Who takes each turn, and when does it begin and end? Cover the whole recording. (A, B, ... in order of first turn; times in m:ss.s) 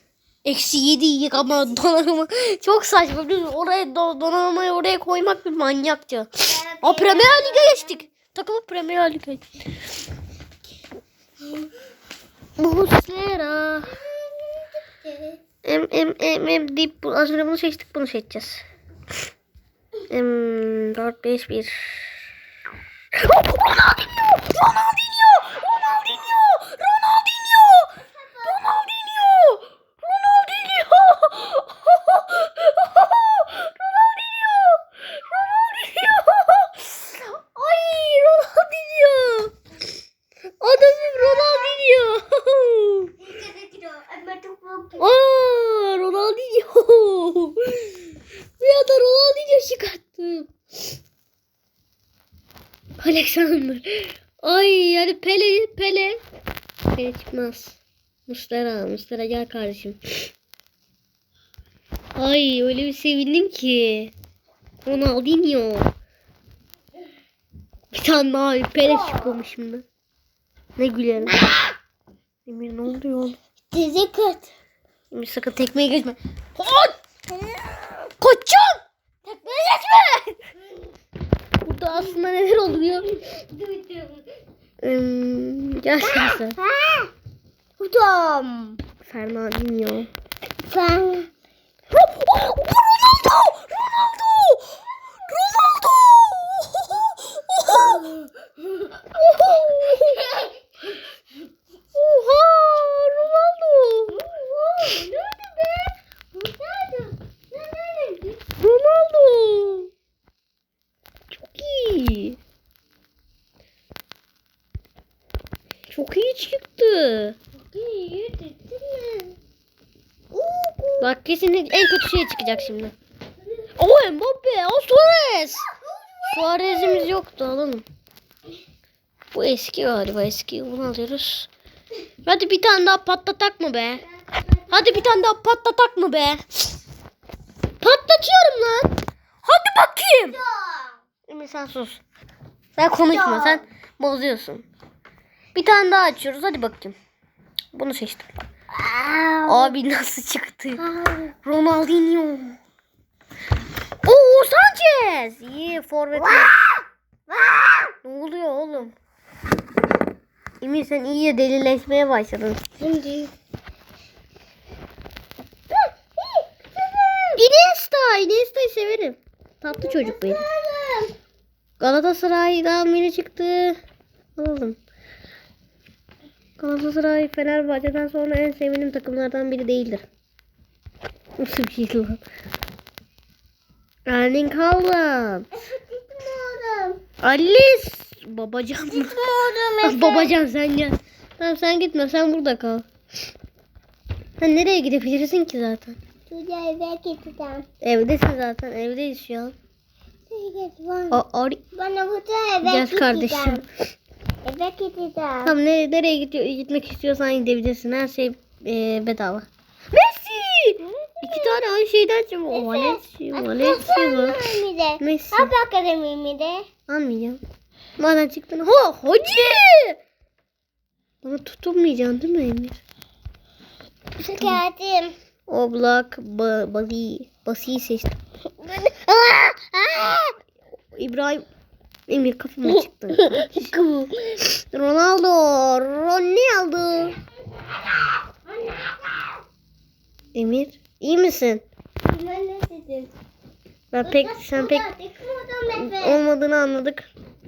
0:00.4-0:09.5 A
0:06.5-0:08.0 B
0:12.6-0:13.9 A
0:13.9-0:15.4 B
0:15.6-0:18.6 A
0:20.1-0:22.2 A
0:23.2-0:39.5 A
0:28.0-0:28.6 B
0:40.6-0:43.1 A
0:40.9-0:41.8 B
0:43.2-0:45.1 B
0:45.0-0:48.1 A
0:48.6-0:50.5 A
0:53.0-0:56.2 A
0:56.9-1:00.0 A
1:02.2-1:04.1 A
1:04.8-1:05.9 A
1:07.9-1:09.8 A
1:08.8-1:09.3 B
1:10.8-1:11.4 A
1:12.5-1:13.4 A
1:13.7-1:14.5 B
1:15.1-1:17.0 A
1:18.1-1:20.4 A
1:21.6-1:23.1 A
1:23.2-1:24.2 B
1:24.8-1:26.6 A
1:26.0-1:27.1 B
1:27.8-1:28.8 B
1:29.0-1:30.1 A
1:30.6-1:31.3 B
1:31.9-1:34.8 A
1:35.3-1:38.1 A
1:37.7-1:38.9 B
1:39.1-1:40.4 A
1:40.2-1:40.5 B
1:41.9-1:44.2 A
1:44.1-1:48.4 B
1:48.6-1:49.9 A
1:51.3-1:52.4 A
1:55.9-1:57.4 A
1:57.6-1:59.4 B
2:00.3-2:01.1 B
2:01.0-2:03.0 A
2:03.8-2:05.7 A
2:05.7-2:07.1 B
2:06.3-2:07.8 A
2:09.3-2:11.5 A
2:12.2-2:14.0 A
2:14.1-2:15.2 B
2:14.7-2:16.4 A
2:17.8-2:20.4 A
2:20.2-2:21.0 B
2:21.3-2:22.0 A
2:22.8-2:24.7 A
2:23.1-2:23.6 B
2:25.5-2:27.0 A
2:27.7-2:28.3 A
2:28.7-2:29.8 B
2:29.5-2:30.8 A
2:30.8-2:31.3 B
2:31.4-2:32.6 A
2:34.0-2:36.6 A
2:36.2-2:36.7 B
2:37.3-2:37.9 B
2:38.0-2:38.9 A
2:40.6-2:42.6 A
2:42.8-2:43.3 B
2:46.2-2:47.4 B
2:47.4-2:50.4 A
2:49.7-2:51.1 B
2:51.8-2:53.8 A
2:54.4-2:54.8 A
2:56.6-3:00.1 A
3:01.4-3:02.2 A
3:04.1-3:05.5 A
3:05.6-3:07.0 B
3:07.2-3:09.2 A
3:08.9-3:10.3 B
3:09.8-3:12.9 A
3:14.4-3:16.0 A
3:16.3-3:17.7 B
3:17.8-3:19.6 A
3:20.3-3:21.2 B
3:21.1-3:21.6 A
3:21.7-3:23.6 B
3:22.6-3:23.6 A
3:24.4-3:25.5 B
3:25.4-3:35.5 A
3:31.0-3:31.5 B
3:32.5-3:36.7 B
3:36.9-3:37.4 A
3:38.0-3:40.0 A
3:41.2-3:42.8 A
3:44.2-3:45.2 B
3:45.5-3:48.2 A
3:49.1-3:50.3 A
3:51.0-3:51.5 A
3:52.1-3:53.7 A
3:53.2-3:54.4 B
3:54.4-3:57.2 A
3:58.5-3:59.3 B
4:00.4-4:01.6 A
4:02.0-4:03.1 B
4:03.9-4:04.8 A
4:04.0-4:06.2 B
4:05.8-4:07.1 A